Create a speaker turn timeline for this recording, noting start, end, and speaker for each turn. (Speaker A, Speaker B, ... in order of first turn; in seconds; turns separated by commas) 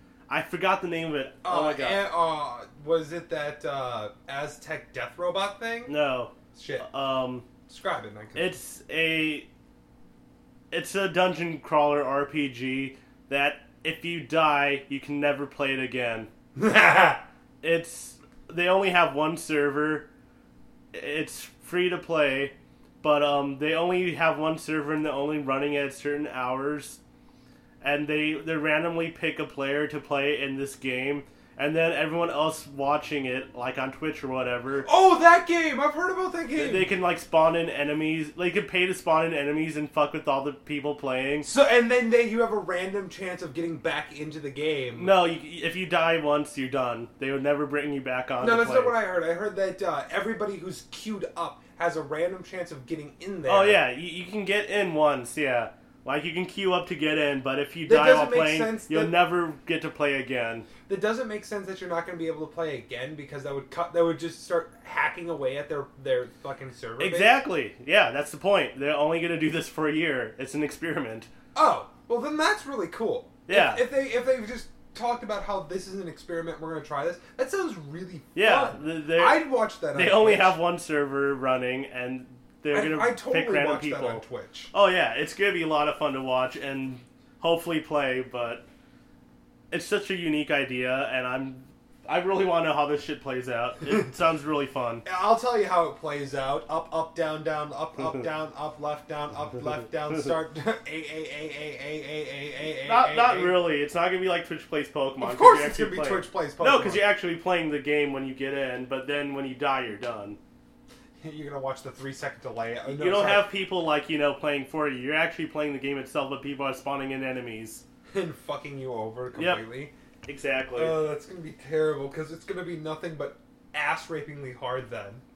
Speaker A: 0.3-2.1, Speaker B: 1.4-5.9, Speaker A: 5.9-7.5, Speaker B: 6.5-6.8, Speaker B: 7.7-8.5, Speaker A: 8.3-9.5, Speaker A: 10.7-16.3, Speaker B: 16.5-17.2, Speaker A: 17.6-20.1, Speaker A: 20.9-27.0, Speaker A: 27.8-34.9, Speaker B: 34.8-36.9, Speaker A: 36.5-41.5, Speaker B: 41.4-45.1, Speaker A: 44.9-49.0, Speaker B: 48.4-53.8, Speaker A: 53.5-60.7, Speaker B: 57.9-59.2, Speaker B: 60.9-67.4, Speaker A: 67.0-71.3, Speaker B: 71.5-80.6, Speaker A: 73.5-73.8, Speaker A: 78.3-88.7, Speaker B: 82.7-84.7, Speaker A: 89.7-95.0, Speaker B: 95.0-103.6, Speaker A: 102.8-110.4, Speaker B: 105.2-107.1, Speaker B: 111.2-113.5, Speaker A: 112.9-117.8, Speaker B: 118.1-119.9, Speaker A: 119.3-119.6, Speaker A: 120.2-121.0, Speaker B: 120.8-125.2